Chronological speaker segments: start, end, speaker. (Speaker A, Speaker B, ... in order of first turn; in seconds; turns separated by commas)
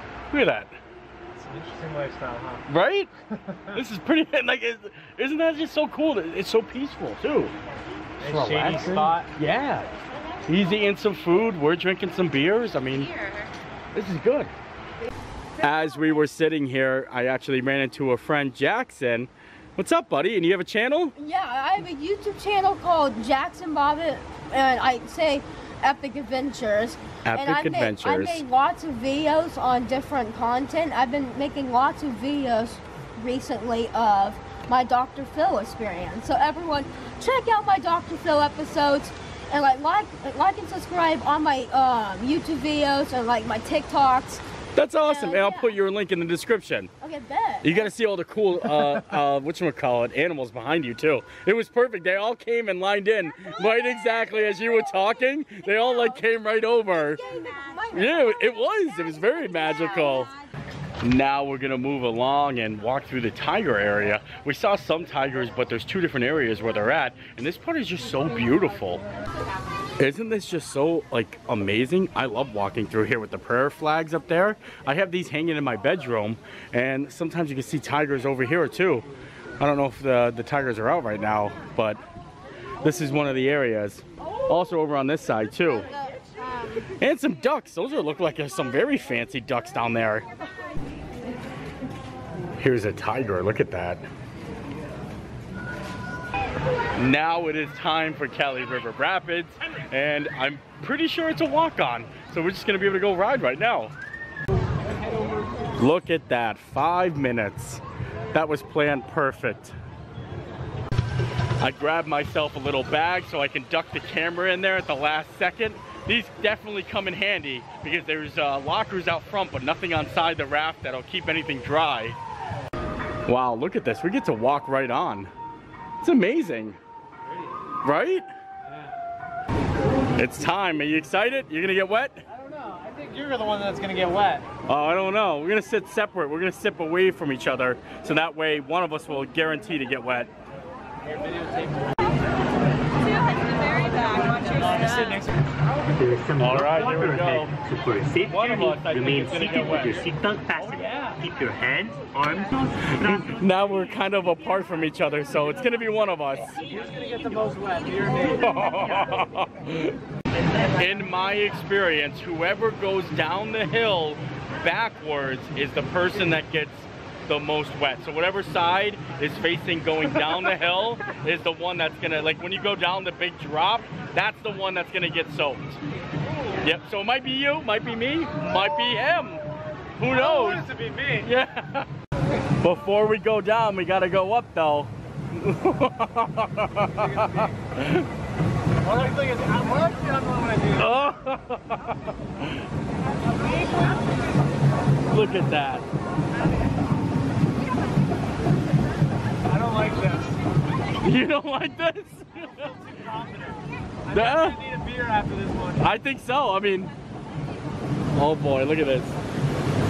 Speaker A: 0.3-0.8, Speaker B: 1.4-2.6, Speaker A: 2.7-3.1, Speaker B: 3.5-3.8, Speaker A: 3.7-7.5, Speaker B: 8.2-9.3, Speaker A: 8.2-9.9, Speaker A: 10.5-13.2, Speaker A: 13.9-14.5, Speaker A: 15.6-21.1, Speaker C: 21.2-44.4, Speaker A: 27.3-28.4, Speaker A: 44.8-46.9, Speaker C: 45.0-45.8, Speaker C: 47.0-47.9, Speaker A: 47.6-57.2, Speaker C: 57.2-58.2, Speaker A: 57.9-60.3, Speaker A: 61.0-69.0, Speaker A: 70.0-79.1, Speaker A: 79.6-82.0, Speaker A: 82.8-85.9, Speaker A: 87.0-90.3, Speaker A: 92.6-94.1, Speaker A: 97.0-103.9, Speaker A: 105.8-109.8, Speaker A: 111.6-122.2, Speaker A: 123.3-125.3, Speaker A: 126.0-126.8, Speaker A: 127.8-128.3, Speaker A: 130.2-132.3, Speaker B: 132.3-134.5, Speaker A: 134.7-140.3, Speaker B: 141.1-142.0, Speaker B: 144.1-145.4, Speaker D: 145.8-153.3, Speaker A: 146.4-147.6, Speaker B: 146.6-146.9, Speaker A: 148.2-150.0, Speaker B: 150.6-151.2, Speaker A: 153.0-156.6, Speaker B: 156.7-159.0, Speaker A: 158.4-160.0, Speaker A: 160.6-175.8, Speaker A: 176.6-179.4, Speaker A: 180.0-180.7, Speaker B: 180.1-181.3, Speaker A: 181.2-181.9, Speaker A: 182.6-188.1, Speaker B: 187.0-187.5, Speaker B: 188.8-191.2, Speaker A: 190.8-192.5, Speaker A: 195.1-195.9, Speaker B: 199.5-200.4, Speaker A: 201.0-202.6, Speaker B: 202.4-205.9, Speaker A: 204.1-204.6, Speaker A: 205.8-206.9, Speaker A: 208.1-209.2